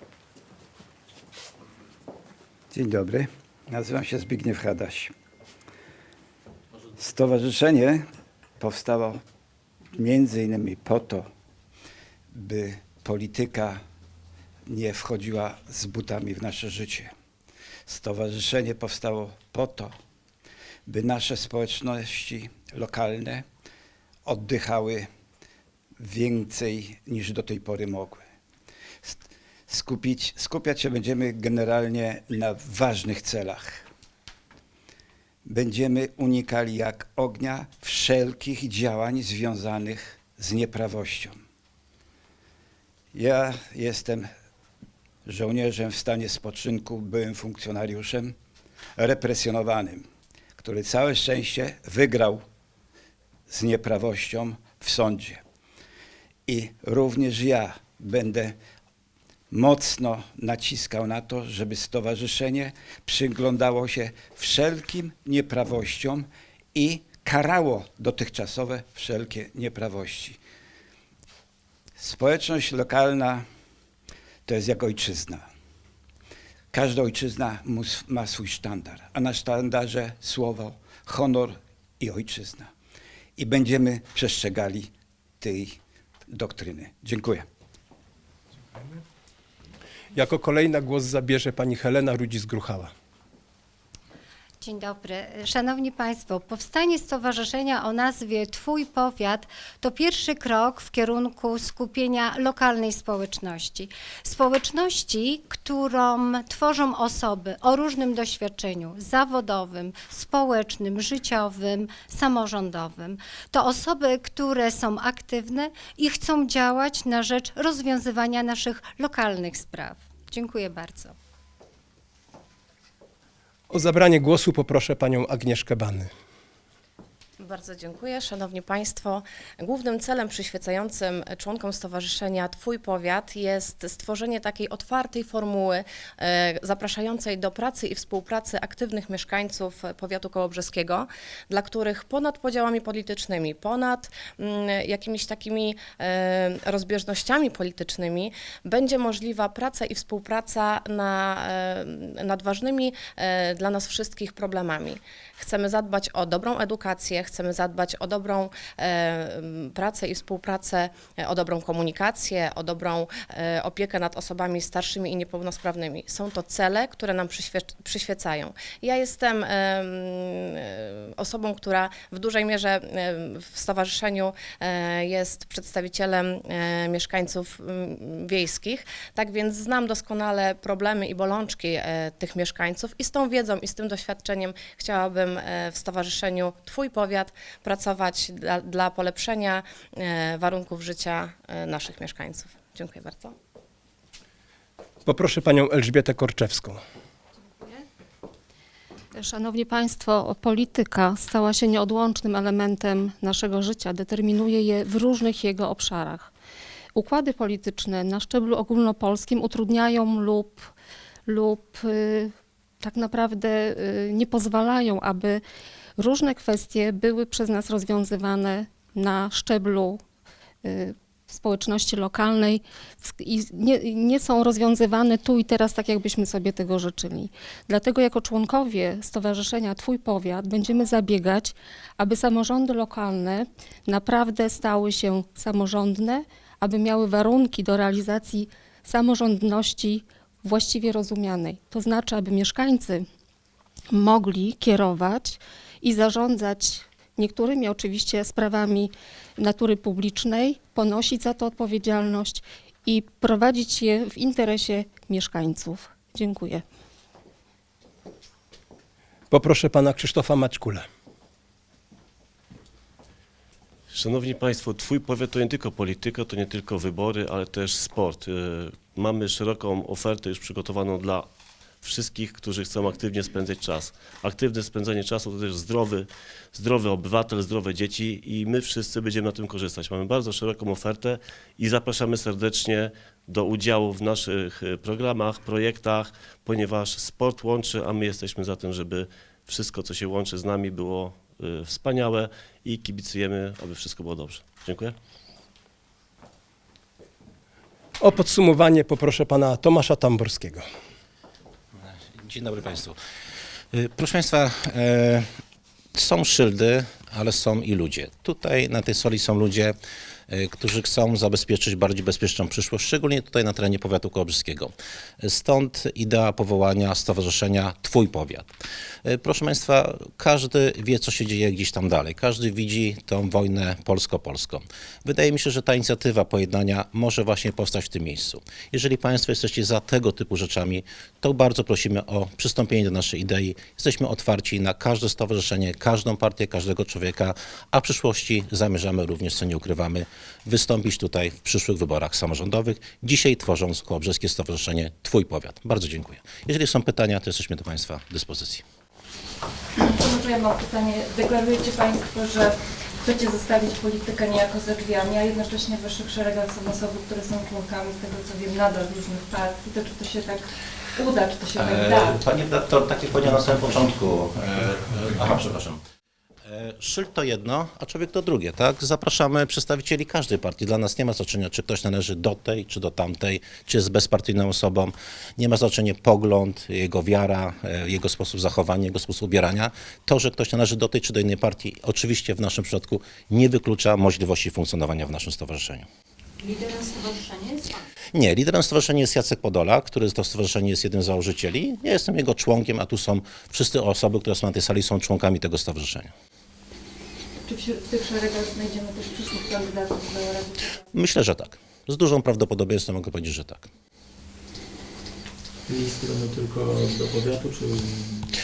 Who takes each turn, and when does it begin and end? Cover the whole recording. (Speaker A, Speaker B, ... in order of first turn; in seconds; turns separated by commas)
Speaker A: 2.7-5.1, Speaker A: 7.0-8.0, Speaker A: 8.6-9.2, Speaker A: 9.9-11.3, Speaker A: 12.3-13.8, Speaker A: 14.7-17.1, Speaker A: 17.9-19.9, Speaker A: 20.9-23.4, Speaker A: 24.2-25.1, Speaker A: 26.0-28.2, Speaker A: 29.0-33.9, Speaker A: 35.4-41.4, Speaker A: 43.1-44.3, Speaker A: 45.2-48.3, Speaker A: 49.0-50.0, Speaker A: 50.6-52.4, Speaker A: 53.5-55.4, Speaker A: 56.5-58.5, Speaker A: 59.5-70.4, Speaker A: 72.0-73.4, Speaker A: 74.5-75.4, Speaker A: 76.7-82.7, Speaker A: 83.4-84.9, Speaker A: 85.4-85.8, Speaker A: 86.3-87.5, Speaker B: 90.1-92.9, Speaker C: 94.6-121.2, Speaker B: 123.7-126.1, Speaker D: 127.4-193.3, Speaker B: 195.0-196.8, Speaker E: 199.1-206.3, Speaker E: 206.9-210.7, Speaker E: 211.3-215.4, Speaker E: 216.0-220.0, Speaker E: 220.6-243.0, Speaker E: 243.9-256.6, Speaker B: 259.3-260.8, Speaker F: 263.9-271.3, Speaker F: 271.8-294.9, Speaker B: 298.0-300.6, Speaker G: 302.1-302.9, Speaker G: 303.7-305.2, Speaker G: 305.9-309.7, Speaker G: 310.3-318.5, Speaker G: 319.0-348.6, Speaker H: 349.8-362.2, Speaker G: 361.5-365.8, Speaker G: 366.5-385.8, Speaker G: 388.1-396.1, Speaker H: 397.4-400.7, Speaker G: 400.9-403.7, Speaker I: 405.7-408.2